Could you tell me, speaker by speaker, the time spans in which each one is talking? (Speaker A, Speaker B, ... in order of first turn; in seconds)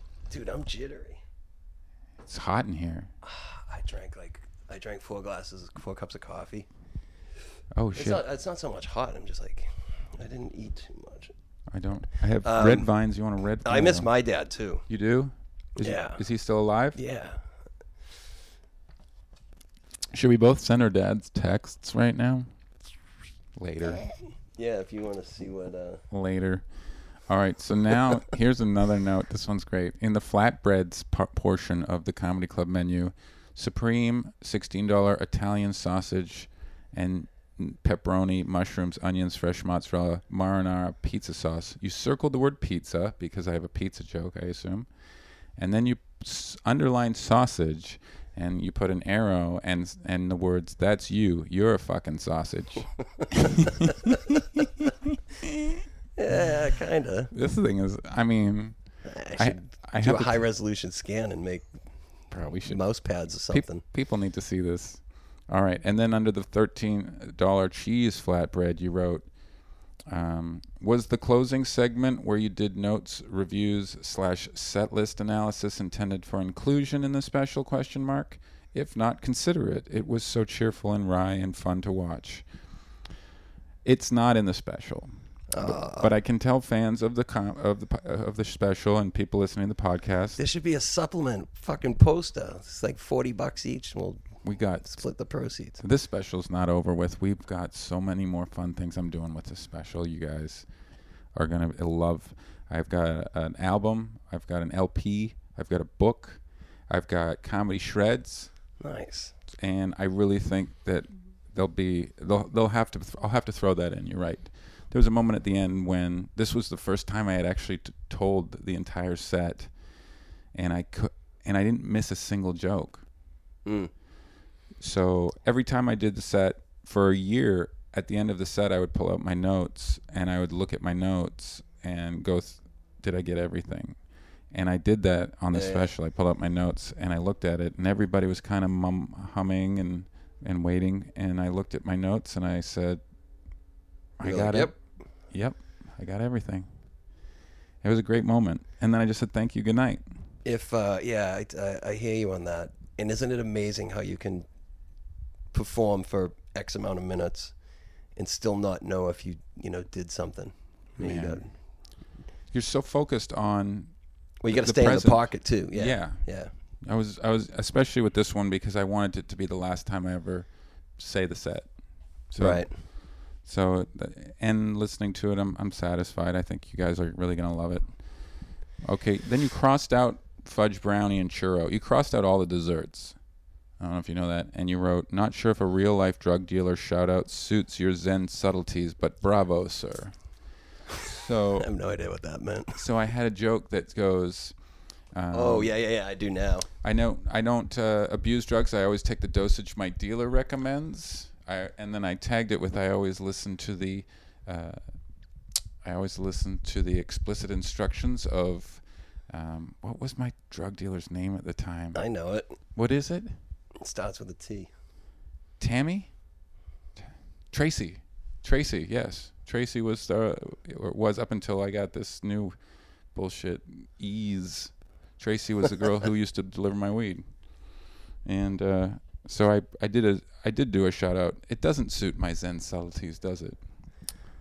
Speaker A: 0.3-1.2, 3.2-6.7, 7.9-11.3, 12.4-12.9, 13.6-14.8, 15.8-16.2, 16.9-17.4, 24.6-26.0, 53.2-54.1, 56.1-57.3, 59.0-61.7, 62.7-63.8, 85.5-86.1, 90.4-94.2, 94.8-95.8, 108.8-109.3, 123.6-123.9, 135.5-135.9, 144.2-144.7, 150.4-154.4, 155.5-157.5, 158.2-161.4, 164.4-166.5, 172.4-172.7, 191.6-192.8, 195.3-196.7, 211.9-212.6, 213.8-214.7
Speaker B: 2.2-3.1, 7.8-8.2, 11.7-14.1, 14.9-17.0, 20.1-22.5, 23.6-24.1, 26.1-26.6, 27.3-44.9, 45.6-55.9, 57.3-58.8, 59.3-60.4, 62.3-62.8, 63.5-69.2, 70.1-82.4, 83.8-90.4, 94.4-95.0, 95.8-100.7, 101.3-108.5, 109.6-119.7, 120.5-123.0, 124.8-134.0, 134.5-143.0, 144.2-144.7, 145.3-146.7, 147.8-150.0, 161.0-161.4, 162.5-163.9, 164.5-166.2, 166.8-171.7, 172.3-172.7, 173.4-177.9, 178.8-183.2, 183.8-190.1, 191.0-191.7, 192.7-194.5, 195.1-195.8, 196.8-204.8, 205.8-212.0, 212.7-213.3, 215.6-216.1, 217.5-222.6, 223.1-227.2, 228.2-233.6